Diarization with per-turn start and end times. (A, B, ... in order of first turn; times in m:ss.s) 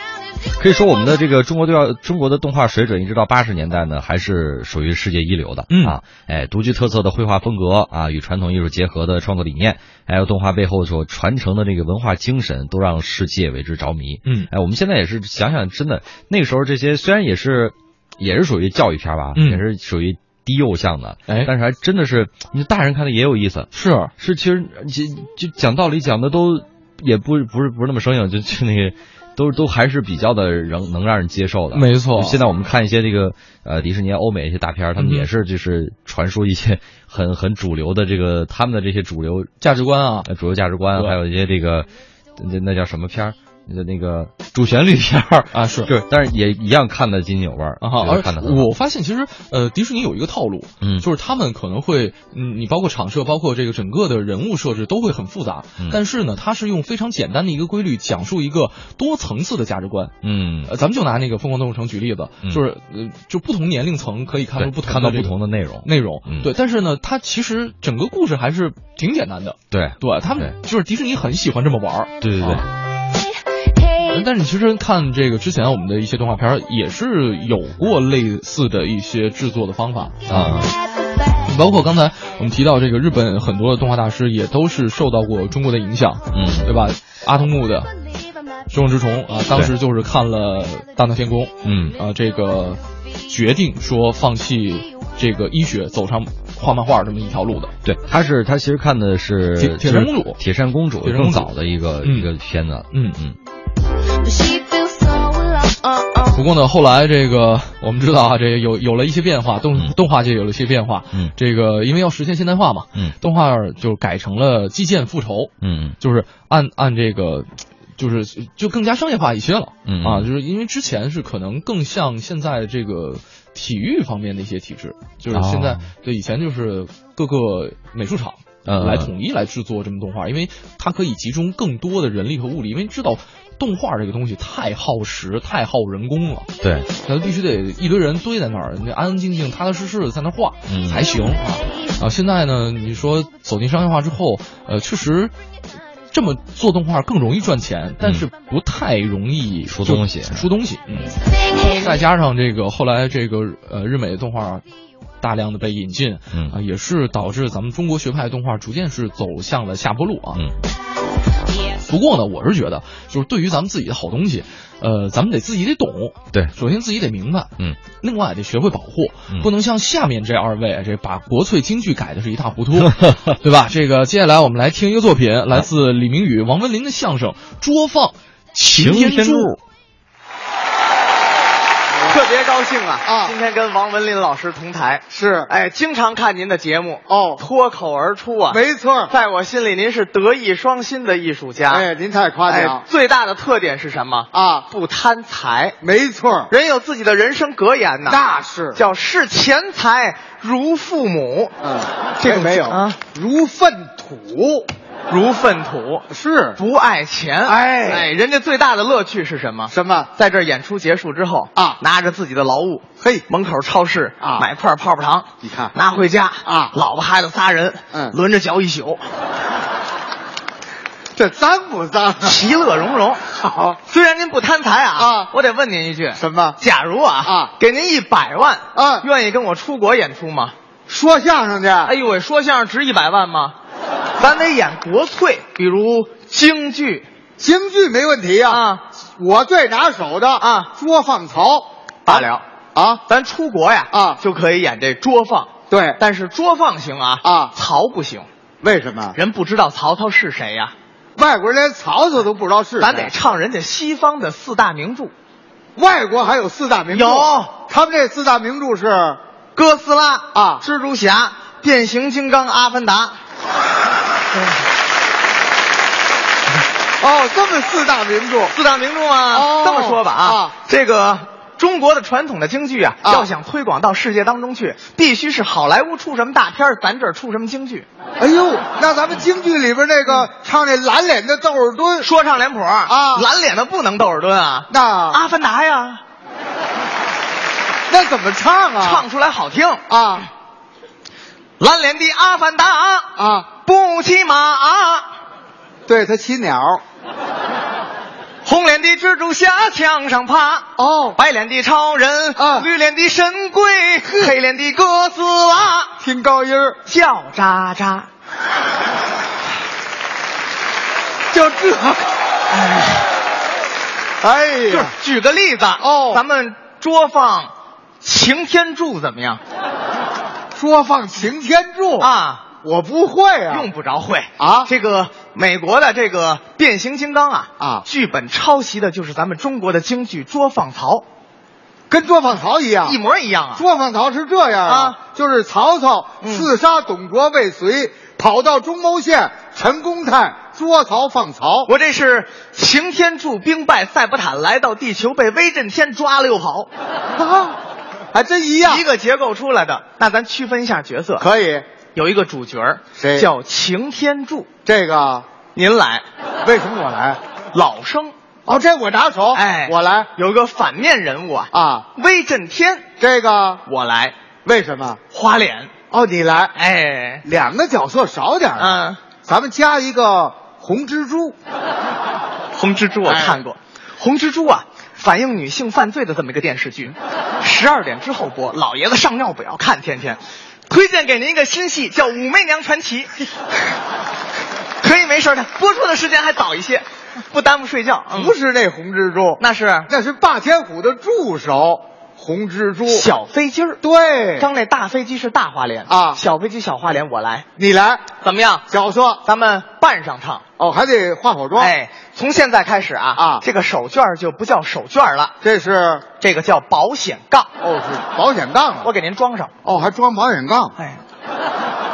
0:00.6-0:39.6 A
0:05.7-0:06.0 B
0:14.2-0:14.5 B
0:19.4-0:19.6 B
0:21.3-0:21.5 B
0:23.7-0:24.1 B
0:31.7-0:32.4 B
0:35.0-0:35.3 B
0:39.6-0:40.3 B
0:40.2-0:48.7 A
0:40.9-0:41.2 B
0:45.5-0:45.9 B
0:47.8-1:12.7 B
0:50.8-0:51.1 A
1:00.2-1:00.7 A
1:04.6-1:06.5 A
1:09.7-1:10.6 A
1:12.2-1:12.7 A
1:13.0-1:14.2 C
1:14.1-1:20.6 B
1:20.3-1:20.7 A
1:20.7-1:21.4 C
1:21.5-1:27.9 B
1:26.3-1:26.7 A
1:28.7-1:37.8 B
1:31.6-1:32.0 A
1:37.8-1:43.4 A
1:39.6-1:40.4 B
1:41.0-1:42.3 B
1:42.9-1:43.2 B
1:44.2-1:46.5 C
1:46.3-2:25.3 B
1:55.6-1:56.0 A
1:59.9-2:00.3 A
2:05.3-2:05.9 A
2:08.6-2:09.1 A
2:16.6-2:16.9 A
2:20.7-2:21.1 A
2:26.1-2:31.2 B
2:28.0-2:28.3 A
2:29.7-2:30.5 A
2:31.1-2:32.0 C
2:31.7-2:34.6 B
2:35.2-2:40.4 B
2:36.3-2:36.6 A
2:41.9-2:59.6 B
2:52.8-2:53.2 A
2:58.7-2:59.6 A
3:01.9-3:02.2 D
3:02.1-3:11.8 E
3:03.0-3:03.4 D
3:05.1-3:05.5 D
3:07.1-3:07.4 D
3:08.5-3:09.1 D
3:11.7-3:12.8 D
3:12.5-3:15.8 E
3:14.3-3:14.7 D
3:15.8-3:16.5 D
3:16.5-3:18.2 E
3:18.0-3:18.8 D
3:18.8-3:21.5 E
3:21.6-3:24.7 D
3:22.2-3:23.0 E
3:25.1-3:26.0 E
3:26.1-3:26.6 D
3:26.6-3:39.0 E
3:27.4-3:28.1 D
3:29.7-3:30.1 D
3:33.0-3:33.3 D
3:34.2-3:34.5 D
3:35.4-3:35.8 D
3:36.4-3:36.7 D
3:41.2-3:42.4 D
3:42.2-3:43.2 E
3:43.3-3:43.8 D
3:43.9-3:50.5 E
3:45.0-3:45.3 D
3:46.2-3:46.6 D
3:47.2-3:47.5 D
3:48.8-3:49.1 D
3:50.9-3:51.9 D
3:51.8-3:53.6 E
3:54.2-3:57.1 E
3:57.4-3:58.7 D
3:58.5-3:58.8 E
3:59.2-4:03.0 D
4:00.4-4:00.7 E
4:02.1-4:02.4 E
4:03.1-4:08.3 E
4:03.9-4:04.2 D
4:05.7-4:06.0 D
4:07.2-4:07.5 D
4:08.6-4:09.2 D
4:09.1-4:10.7 E
4:11.2-4:13.1 D
4:12.8-4:15.1 E
4:15.8-4:19.2 D
4:16.9-4:17.5 E
4:19.6-4:23.2 E
4:20.3-4:20.6 D
4:27.0-4:28.6 D
4:28.5-4:37.9 E
4:29.3-4:30.5 D
4:33.0-4:33.3 D
4:38.2-4:42.1 D
4:42.0-4:46.0 E
4:42.9-4:43.3 D
4:44.7-4:45.2 D
4:47.9-4:49.0 D
4:48.8-4:49.8 E
4:49.9-4:50.3 D
4:51.6-4:53.1 E
4:53.2-4:53.5 D
4:53.6-4:55.1 E
4:55.9-4:56.8 D
4:58.4-5:05.9 E
5:00.8-5:01.2 D
5:02.4-5:02.7 D
5:04.1-5:04.3 D
5:06.0-5:06.8 D
5:06.9-5:08.1 E
5:11.3-5:12.0 D
5:12.5-5:13.0 E
5:14.2-5:15.0 D
5:14.7-5:19.4 E
5:15.8-5:16.2 D
5:20.6-5:22.1 D
5:22.0-5:22.5 E
5:22.6-5:23.7 D
5:23.5-5:31.0 E
5:24.4-5:24.7 D
5:27.6-5:27.8 D
5:31.9-5:33.0 D
5:32.8-5:33.6 E
5:33.6-5:41.7 D
5:34.7-5:35.0 E
5:36.2-5:36.5 E
5:41.7-5:46.7 E
5:47.2-5:47.6 D
5:48.1-5:48.8 D
5:48.6-5:51.2 E
5:51.2-5:51.7 D
5:51.9-5:54.5 E
5:53.0-5:53.3 D
5:54.7-5:55.3 D
5:55.6-5:56.0 E
5:56.4-5:57.2 D
5:57.5-5:58.1 E
5:58.5-6:00.1 D
5:59.3-6:02.9 E
6:01.5-6:01.9 D
6:03.0-6:03.6 D
6:03.7-6:04.2 E
6:04.4-6:05.0 D
6:05.1-6:05.7 E
6:05.9-6:06.6 D
6:06.6-6:07.2 E
6:07.2-6:11.4 D
6:08.6-6:09.0 E
6:12.6-6:23.1 E
6:13.0-6:13.4 D
6:24.8-6:28.3 E
6:28.1-6:33.1 D
6:29.4-6:29.9 E
6:32.9-6:33.8 E
6:33.8-6:34.5 D
6:34.4-6:37.5 E
6:35.9-6:36.2 D
6:37.6-6:38.1 D
6:38.2-6:38.6 E
6:38.7-6:39.2 D
6:39.2-6:40.4 E
6:40.6-6:41.7 D
6:41.6-6:45.4 E
6:43.2-6:43.4 D
6:45.4-6:46.1 D
6:46.2-6:47.5 E
6:47.6-6:48.9 D
6:48.8-6:49.5 E
6:49.6-6:50.8 D